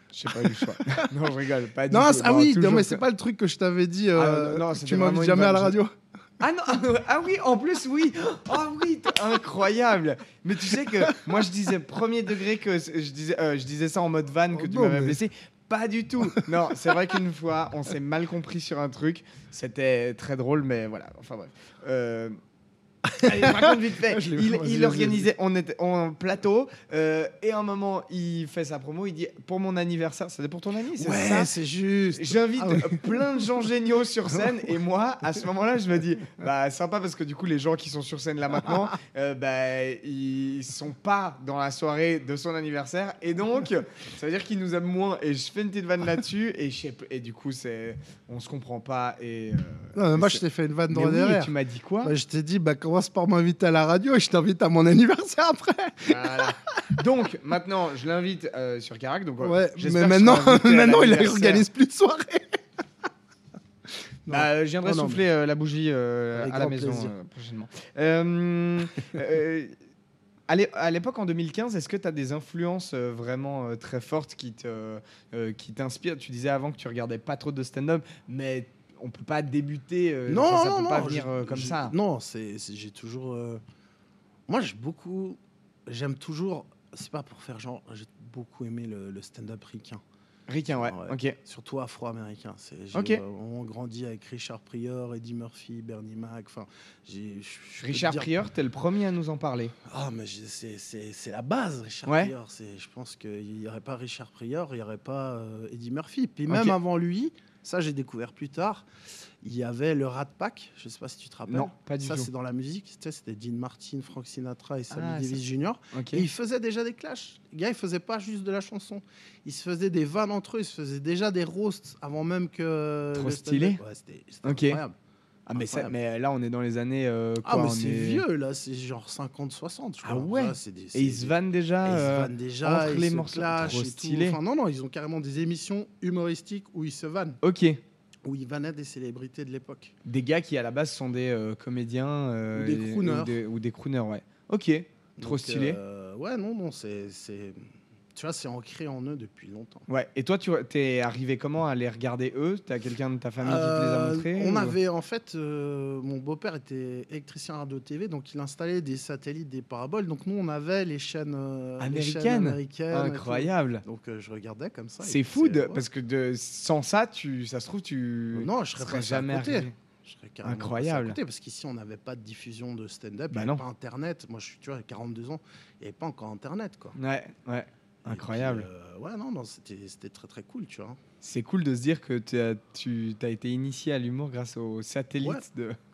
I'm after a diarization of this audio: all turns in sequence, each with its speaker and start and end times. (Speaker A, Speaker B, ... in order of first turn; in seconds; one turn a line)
Speaker A: 0.1-3.0
Speaker B: 0.3-1.1
Speaker B: 1.9-5.9
Speaker A: 4.1-5.8
Speaker A: 6.4-22.4
Speaker B: 10.8-11.4
Speaker B: 14.5-15.2
Speaker B: 23.0-25.3
Speaker A: 23.2-31.5
Speaker B: 31.0-33.5
Speaker A: 32.1-52.1
Speaker B: 49.9-57.0
Speaker A: 56.0-61.6
Speaker B: 59.4-62.6
Speaker B: 64.2-65.2
Speaker A: 64.3-69.7
Speaker B: 66.3-67.1
Speaker A: 70.5-81.9
Speaker B: 80.3-83.6
Speaker B: 84.5-90.0
Speaker A: 90.5-91.4
Speaker B: 90.7-98.3
Speaker A: 92.9-93.2
Speaker A: 97.8-99.7
Speaker B: 99.8-108.8
Speaker A: 102.0-102.3
Speaker A: 106.5-106.8
Speaker B: 109.4-125.0
Speaker A: 111.5-112.3
Speaker A: 114.9-115.4
Speaker A: 115.9-116.2
Speaker A: 123.1-123.8
Speaker A: 124.4-124.8
Speaker A: 125.5-128.2
Speaker B: 125.5-125.9
Speaker B: 127.4-137.4
Speaker A: 130.0-134.4
Speaker A: 137.4-137.8
Speaker B: 138.2-139.9
Speaker A: 140.0-145.8
Speaker B: 142.5-143.4
Speaker B: 145.2-147.6
Speaker B: 148.1-149.8
Speaker A: 149.9-154.8
Speaker B: 153.4-165.8
Speaker A: 161.8-163.8
Speaker A: 165.0-169.7
Speaker B: 168.3-176.9
Speaker A: 170.4-171.2
Speaker A: 173.3-173.6
Speaker A: 176.9-178.7
Speaker B: 178.0-181.0
Speaker A: 181.2-185.8